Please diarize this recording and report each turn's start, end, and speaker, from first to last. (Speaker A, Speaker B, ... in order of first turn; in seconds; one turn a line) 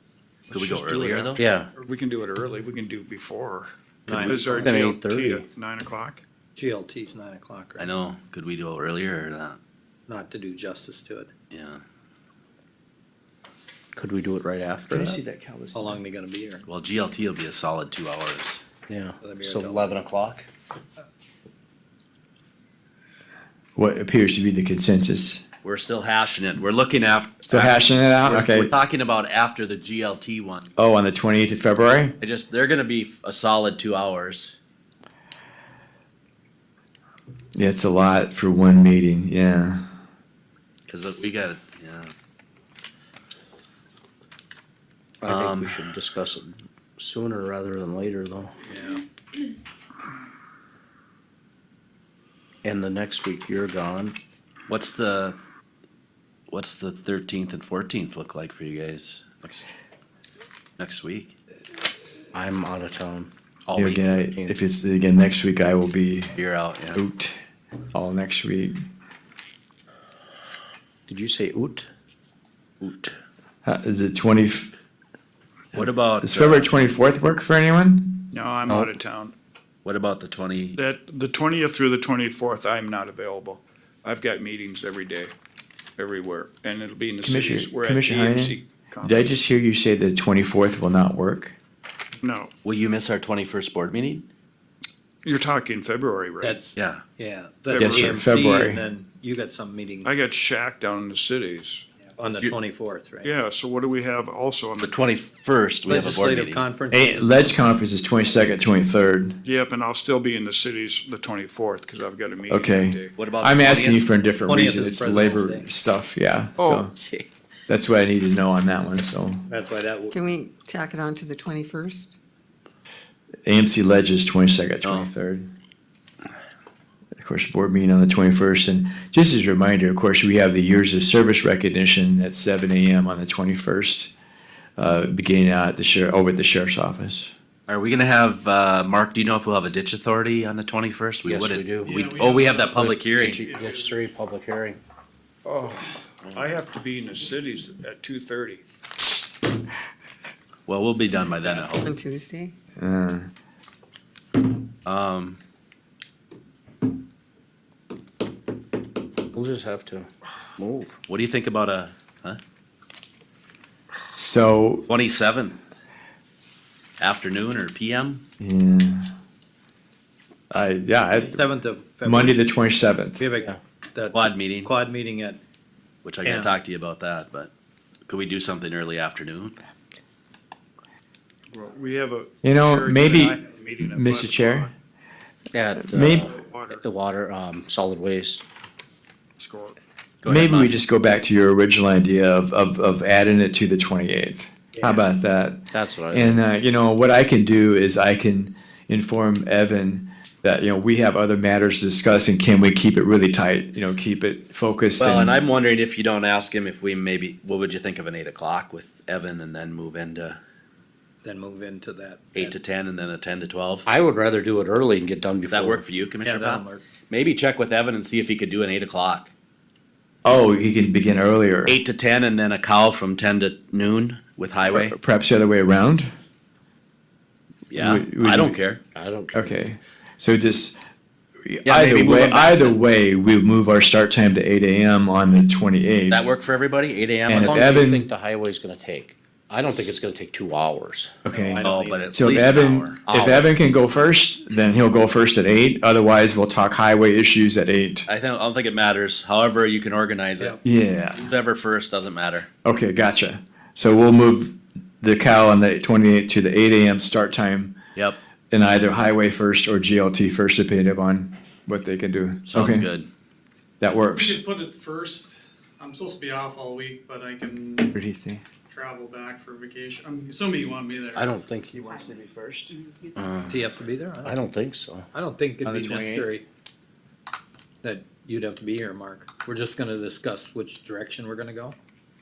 Speaker A: 0.5-1.5
Speaker B: 0.5-6.2
Speaker C: 1.4-1.7
Speaker C: 4.1-5.5
Speaker D: 4.1-4.8
Speaker D: 6.5-7.9
Speaker A: 7.8-9.6
Speaker D: 10.1-11.3
Speaker A: 11.5-11.8
Speaker C: 13.9-15.2
Speaker E: 14.9-16.0
Speaker D: 15.7-16.6
Speaker A: 16.6-18.6
Speaker C: 18.9-20.4
Speaker D: 19.2-20.0
Speaker E: 23.8-25.4
Speaker A: 25.6-30.7
Speaker E: 27.5-28.7
Speaker E: 30.8-32.1
Speaker A: 32.2-34.5
Speaker E: 37.5-39.8
Speaker A: 40.9-42.1
Speaker C: 45.2-48.5
Speaker A: 45.2-46.0
Speaker D: 48.7-49.0
Speaker C: 52.6-54.2
Speaker A: 54.7-55.4
Speaker A: 56.5-59.7
Speaker A: 60.8-61.4
Speaker C: 62.3-63.3
Speaker A: 63.6-64.2
Speaker E: 63.7-66.4
Speaker A: 66.3-67.0
Speaker E: 66.9-67.4
Speaker E: 67.9-68.8
Speaker C: 71.1-71.9
Speaker A: 72.8-73.1
Speaker E: 73.6-74.7
Speaker A: 75.7-76.7
Speaker E: 75.7-78.3
Speaker B: 78.3-79.3
Speaker A: 79.8-80.8
Speaker B: 80.7-85.3
Speaker B: 86.0-89.4
Speaker E: 87.2-91.5
Speaker B: 92.2-92.5
Speaker A: 92.6-94.2
Speaker B: 95.2-96.6
Speaker D: 96.4-100.1
Speaker A: 96.8-97.0
Speaker B: 97.7-98.3
Speaker E: 97.8-98.8
Speaker B: 100.0-101.9
Speaker D: 102.2-103.3
Speaker B: 103.2-105.0
Speaker A: 104.8-106.6
Speaker D: 105.8-107.6
Speaker E: 106.9-109.4
Speaker B: 109.4-113.1
Speaker E: 112.5-116.9
Speaker A: 113.2-114.0
Speaker D: 114.5-115.7
Speaker B: 116.6-116.8
Speaker E: 117.7-119.4
Speaker D: 119.5-120.2
Speaker F: 120.1-122.2
Speaker E: 123.5-125.5
Speaker A: 124.8-125.1
Speaker E: 127.2-134.1
Speaker E: 134.8-137.3
Speaker A: 137.7-143.4
Speaker C: 141.2-142.0
Speaker G: 141.8-144.0
Speaker C: 142.9-144.8
Speaker B: 145.4-148.6
Speaker A: 146.2-146.5
Speaker A: 150.7-151.9
Speaker F: 151.7-152.5
Speaker E: 152.8-153.3
Speaker A: 154.8-155.4
Speaker C: 159.3-161.0
Speaker A: 161.1-162.4
Speaker E: 164.1-164.9
Speaker A: 164.9-165.6
Speaker A: 167.0-168.2
Speaker E: 168.4-169.1
Speaker E: 170.5-171.5
Speaker D: 171.1-172.4
Speaker E: 172.0-173.2
Speaker D: 173.2-175.4
Speaker A: 174.1-174.7
Speaker A: 176.0-177.5
Speaker D: 176.2-176.5
Speaker A: 178.1-179.6
Speaker B: 181.5-184.7
Speaker E: 182.4-184.7
Speaker C: 185.5-188.4
Speaker E: 185.8-186.3
Speaker B: 186.0-186.8
Speaker B: 189.4-189.8
Speaker A: 190.2-190.8
Speaker E: 190.2-205.4
Speaker D: 194.7-195.1
Speaker C: 195.7-196.4
Speaker A: 205.0-210.4
Speaker D: 211.2-212.5
Speaker A: 212.3-213.9
Speaker C: 213.8-215.8
Speaker A: 215.5-219.3
Speaker D: 216.2-216.8
Speaker E: 220.2-221.8
Speaker A: 221.7-224.9
Speaker E: 224.7-226.1
Speaker A: 227.7-228.8
Speaker E: 227.8-228.5
Speaker C: 228.9-229.6
Speaker E: 229.3-230.8
Speaker E: 231.4-236.3
Speaker A: 231.6-232.8
Speaker A: 236.1-237.7
Speaker E: 237.3-238.1
Speaker C: 237.3-241.1
Speaker E: 241.2-248.1
Speaker D: 241.3-242.2
Speaker A: 241.6-243.0
Speaker C: 243.1-243.5
Speaker A: 248.1-250.6
Speaker E: 250.6-251.3
Speaker A: 251.1-252.5
Speaker E: 252.6-257.7
Speaker E: 258.5-262.9
Speaker A: 262.5-263.1
Speaker E: 263.8-264.4
Speaker G: 264.1-268.0
Speaker E: 267.9-268.4
Speaker G: 268.7-271.4
Speaker C: 271.1-271.8
Speaker E: 271.7-272.7
Speaker A: 273.1-273.6
Speaker D: 273.5-274.4
Speaker C: 274.2-275.1
Speaker D: 275.1-276.4
Speaker E: 275.6-276.3
Speaker D: 277.8-281.8